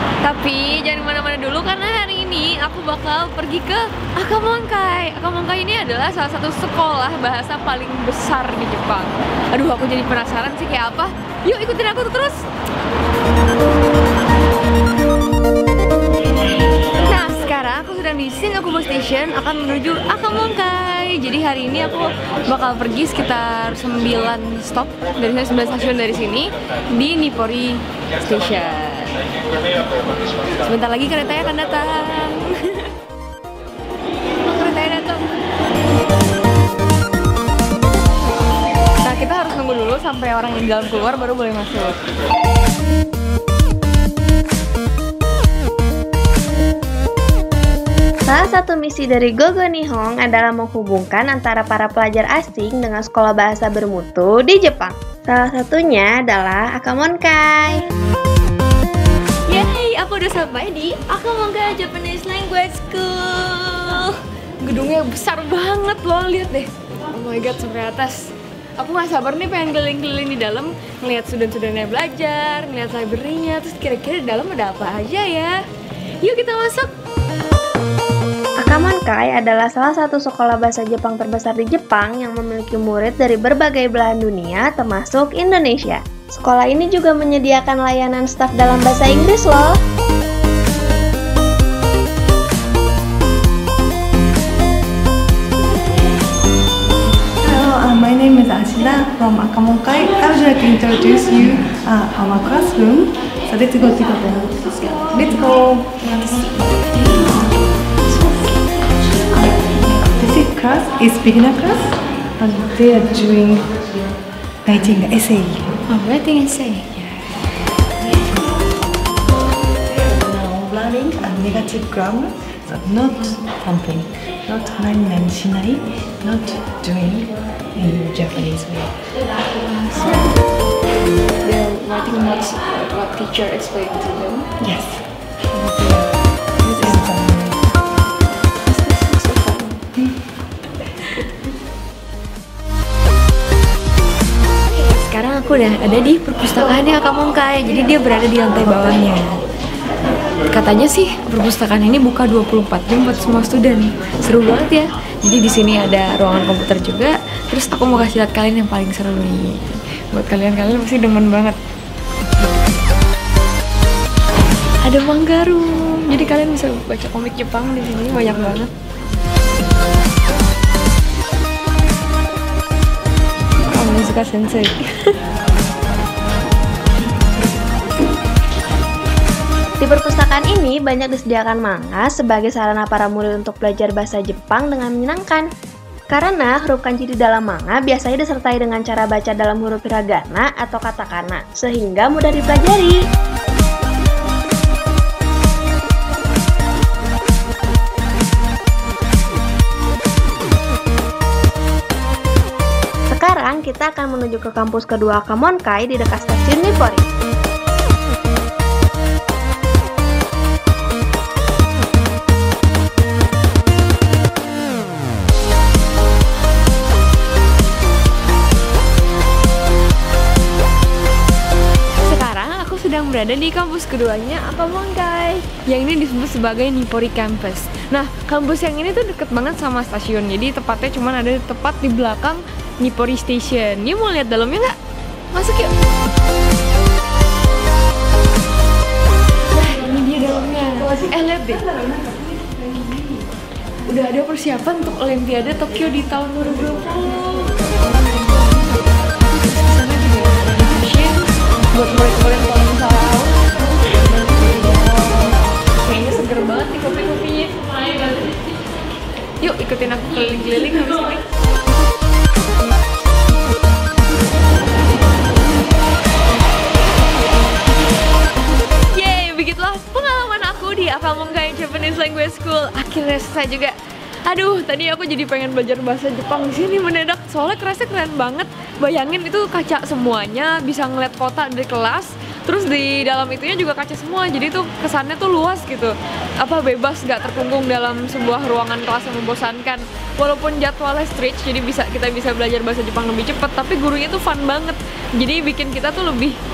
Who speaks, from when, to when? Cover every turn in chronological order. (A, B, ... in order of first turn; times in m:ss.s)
0:00.2-0:12.4 A
0:16.9-0:29.2 A
0:30.6-0:32.9 A
0:34.4-0:35.2 A
0:39.0-0:42.0 A
0:48.3-0:57.8 B
0:59.5-1:15.6 A
1:16.2-1:16.9 A
1:18.6-1:29.8 B
1:37.4-1:46.4 C
1:47.0-1:47.3 A
1:50.0-1:53.9 C
1:54.6-1:55.8 C
1:55.8-1:57.4 A
2:00.0-2:09.0 C
2:09.8-2:10.3 C
2:11.4-2:14.5 A
2:14.6-2:16.0 C
2:15.6-2:15.9 A
2:16.6-2:17.6 C
2:18.6-2:19.8 A
2:20.8-2:21.4 A
2:24.6-2:29.4 A
2:30.5-2:41.6 A
2:44.8-2:48.7 A
2:53.7-2:55.1 A
2:59.8-3:05.4 B
3:06.1-3:13.0 B
3:23.1-3:27.0 B
3:42.0-3:54.8 A
3:55.3-3:55.7 A
3:59.5-4:01.7 A
4:01.7-4:02.5 C
4:03.8-4:18.3 A
4:19.4-4:21.2 A
4:28.9-4:56.4 A